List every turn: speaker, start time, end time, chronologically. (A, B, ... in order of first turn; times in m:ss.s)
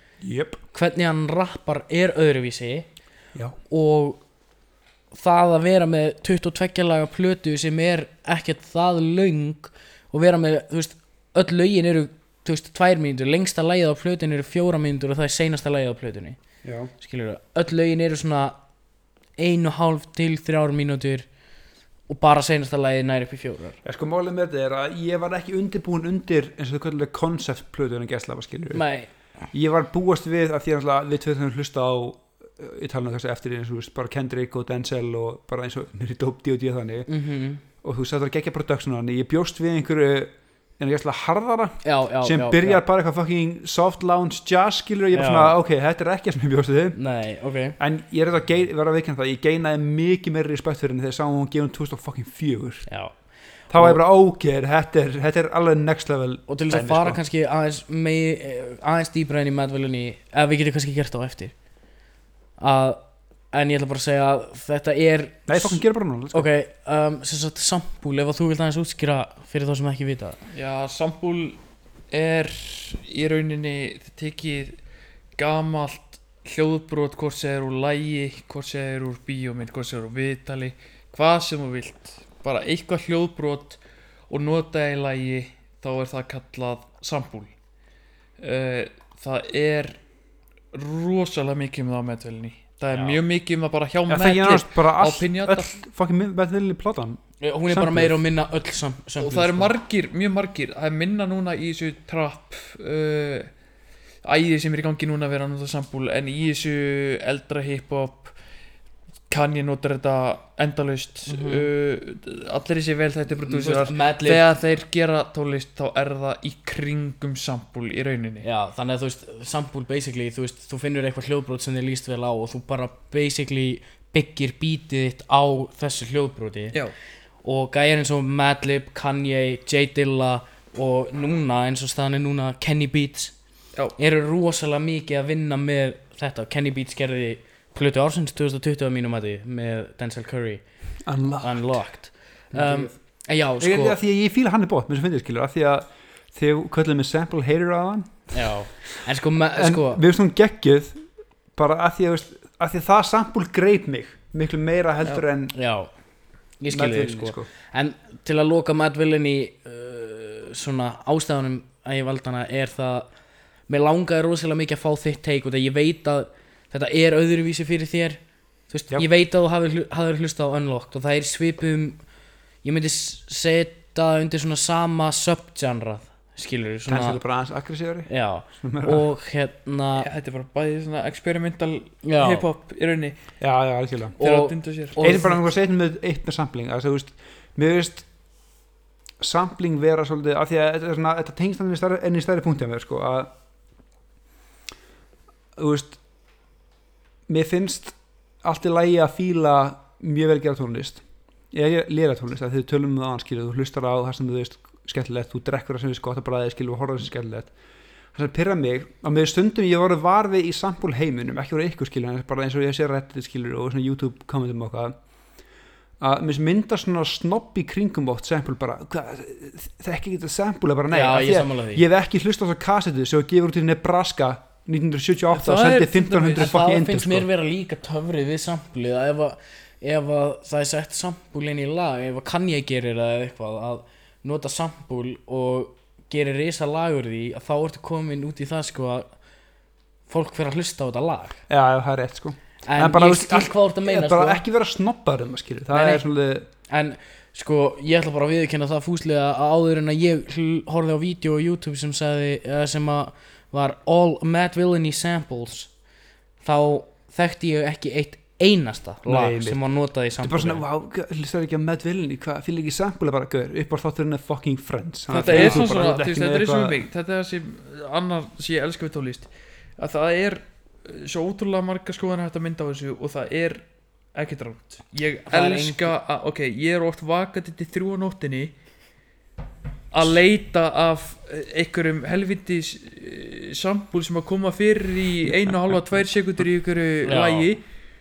0:00.2-0:00.6 A
0:00.7-0:02.9 B
0:03.6-0:04.2 B
0:05.1-0:16.4 B
0:16.6-0:16.9 A
0:16.9-0:18.6 B
0:19.4-0:21.3 B
0:22.1-0:23.8 B
0:23.8-0:37.1 A
0:28.7-0:29.1 B
0:37.1-0:37.6 B
0:37.8-0:47.0 A
0:41.8-0:42.8 B
0:45.1-0:45.5 B
0:47.0-0:47.8 B
0:47.8-0:53.0 A
0:52.9-0:54.0 B
0:53.7-0:57.2 A
0:56.5-1:01.6 B
1:02.6-1:10.4 B
1:05.5-1:06.5 A
1:10.5-1:14.8 C
1:15.4-1:27.6 C
1:28.4-1:30.0 C
1:30.7-1:35.7 C
1:32.9-1:33.2 B
1:34.1-1:38.2 A
1:37.4-1:39.7 B
1:39.2-1:43.5 C
1:44.2-1:48.4 C
1:49.3-1:58.4 C
1:51.3-1:51.7 B
1:53.4-1:54.5 B
1:58.4-2:06.8 B
2:07.4-2:13.4 B
2:13.9-2:24.0 B
2:21.0-2:21.8 A
2:22.5-2:22.9 A
2:23.6-2:28.7 A
2:28.3-2:30.0 B
2:29.6-2:35.5 A
2:35.5-2:43.1 B
2:36.7-2:37.5 A
2:43.7-2:52.0 B
2:52.6-2:57.2 B
2:56.9-2:59.1 A
2:58.0-3:00.1 B
3:00.0-3:03.3 C
3:02.0-3:02.4 B
3:03.4-3:04.2 A
3:04.2-3:05.4 B
3:04.2-3:05.4 C
3:05.0-3:08.1 A
3:09.2-3:13.3 A
3:15.6-3:16.0 A
3:17.3-3:27.5 A
3:28.1-3:35.0 A
3:36.0-3:47.3 A
3:40.9-3:41.8 B
3:45.3-3:46.5 C
3:46.4-3:59.1 B
4:00.1-4:01.4 B
4:01.5-4:06.5 A
4:02.6-4:04.4 B
4:05.7-4:06.0 B
4:06.7-4:15.8 B
4:16.4-4:20.6 B
4:19.0-4:19.6 A
4:20.2-4:26.8 A
4:25.1-4:38.5 C
4:25.2-4:25.6 B
4:35.3-4:35.9 B
4:39.9-4:47.6 C
4:45.2-4:45.5 A
4:47.0-4:47.5 B